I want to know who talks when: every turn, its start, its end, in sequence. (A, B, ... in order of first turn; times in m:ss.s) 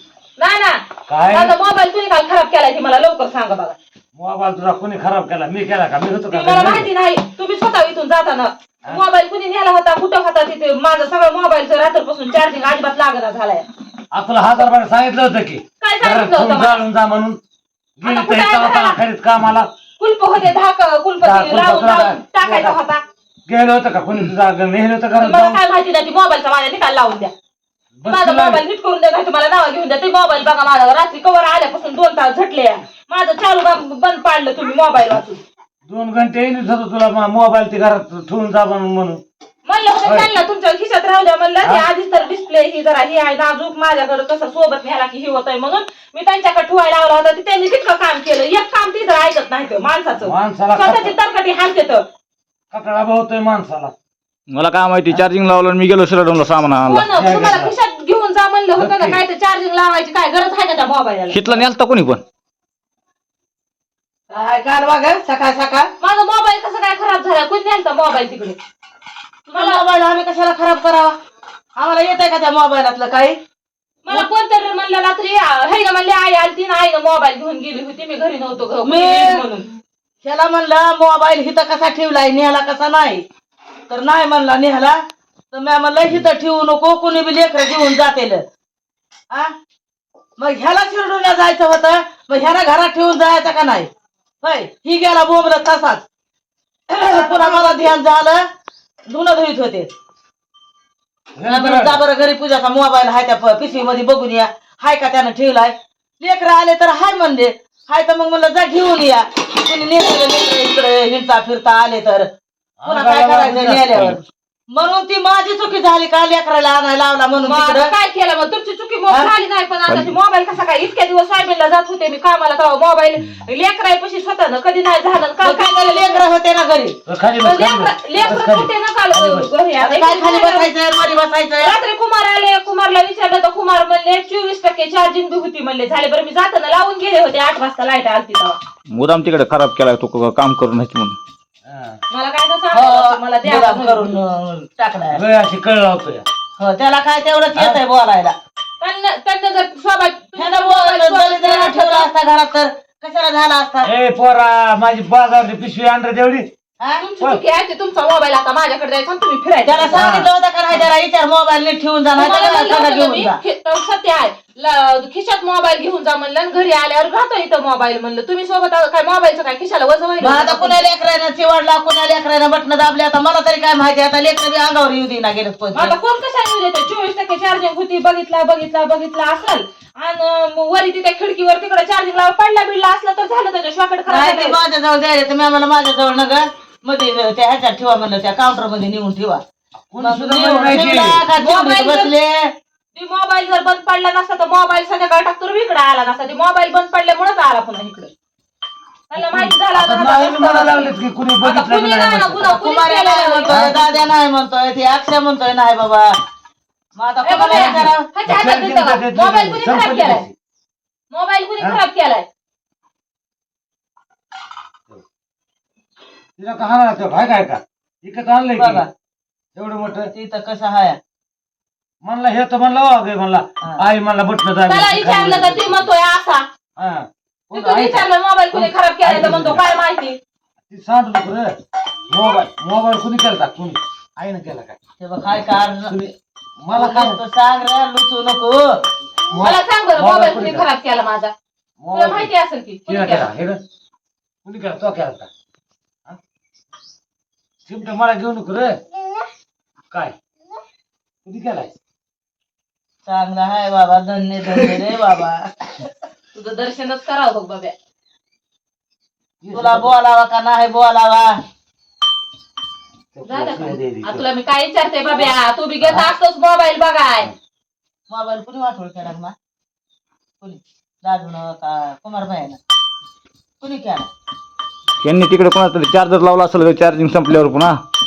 0:00.4-0:03.8 A
0:01.1-0:01.6 B
0:04.2-0:06.9 B
0:06.3-0:13.7 A
0:14.1-0:17.4 B
0:15.8-0:16.9 A
0:18.0-0:19.7 B
0:18.0-0:19.0 A
0:20.0-0:23.0 A
0:21.2-0:22.8 B
0:23.5-0:25.6 B
0:25.2-0:27.3 A
0:28.0-0:28.6 B
0:28.1-0:35.4 A
0:35.9-0:39.2 B
0:39.7-0:52.1 A
0:40.0-0:40.3 B
0:50.2-0:51.1 B
0:52.7-0:53.9 B
0:54.5-0:57.1 C
0:56.8-1:01.6 A
0:57.0-0:57.8 B
0:58.8-0:59.2 B
1:01.3-1:02.2 C
1:04.3-1:05.9 D
1:06.0-1:08.6 A
1:09.5-1:11.2 D
1:09.5-1:09.8 A
1:11.8-1:13.4 D
1:14.0-1:19.7 A
1:18.8-1:19.5 D
1:20.2-1:23.2 D
1:23.9-1:25.0 D
1:25.5-1:28.4 D
1:30.4-1:33.9 D
1:34.4-1:36.1 D
1:36.9-1:38.4 D
1:37.0-1:38.0 A
1:39.1-1:39.9 D
1:41.4-1:42.0 B
1:41.4-1:52.3 D
1:52.8-1:54.2 B
1:52.9-1:54.2 D
1:54.7-1:57.9 D
1:57.5-2:06.2 A
1:59.9-2:00.1 C
2:05.4-2:07.0 D
2:07.1-2:09.5 B
2:07.4-2:10.7 A
2:09.8-2:11.8 D
2:11.6-2:18.6 A
2:18.9-2:21.2 C
2:21.6-2:22.0 B
2:22.1-2:24.2 A
2:22.7-2:25.2 D
2:25.1-2:26.3 B
2:26.6-2:28.4 D
2:27.6-2:27.8 B
2:28.8-2:32.1 A
2:30.4-2:33.9 D
2:33.8-2:36.5 B
2:36.8-2:37.0 D
2:37.0-2:40.1 A
2:39.6-2:43.4 D
2:39.9-2:40.3 B
2:42.2-2:50.9 A
2:50.2-2:55.9 D
2:55.7-3:04.6 A
3:04.1-3:09.4 D
3:09.9-3:11.2 B
3:10.0-3:12.5 D
3:11.4-3:12.1 A
3:12.9-3:18.1 A
3:19.1-3:23.8 A
3:19.2-3:22.6 B
3:22.4-3:26.2 D
3:23.5-3:23.9 B
3:27.0-3:28.1 D
3:27.2-3:30.2 A
3:27.4-3:30.4 B
3:31.1-3:32.3 A
3:36.4-3:38.9 B
3:38.6-3:38.9 D
3:39.6-3:40.1 B
3:40.1-3:41.0 D
3:42.0-3:45.8 B
3:44.7-3:46.5 A
3:46.8-3:49.6 B
3:47.5-3:50.2 A
3:50.7-3:51.6 B
3:52.1-3:54.8 B
3:55.0-3:55.9 D
3:55.9-3:57.2 B
3:56.7-3:58.8 D
3:59.3-4:00.7 B
3:59.4-4:01.3 A
4:01.8-4:02.3 B
4:01.9-4:03.3 A
4:02.9-4:03.6 B
4:04.4-4:05.3 B
4:07.7-4:08.8 B
4:11.2-4:11.7 B
4:13.0-4:15.9 D
4:16.3-4:17.8 A
4:19.4-4:19.9 B
4:19.5-4:21.4 D
4:23.1-4:24.3 B
4:23.2-4:27.3 A
4:25.8-4:26.1 B
4:28.1-4:29.3 D
4:30.4-4:32.6 D
4:33.6-4:34.1 D
4:35.0-4:37.8 C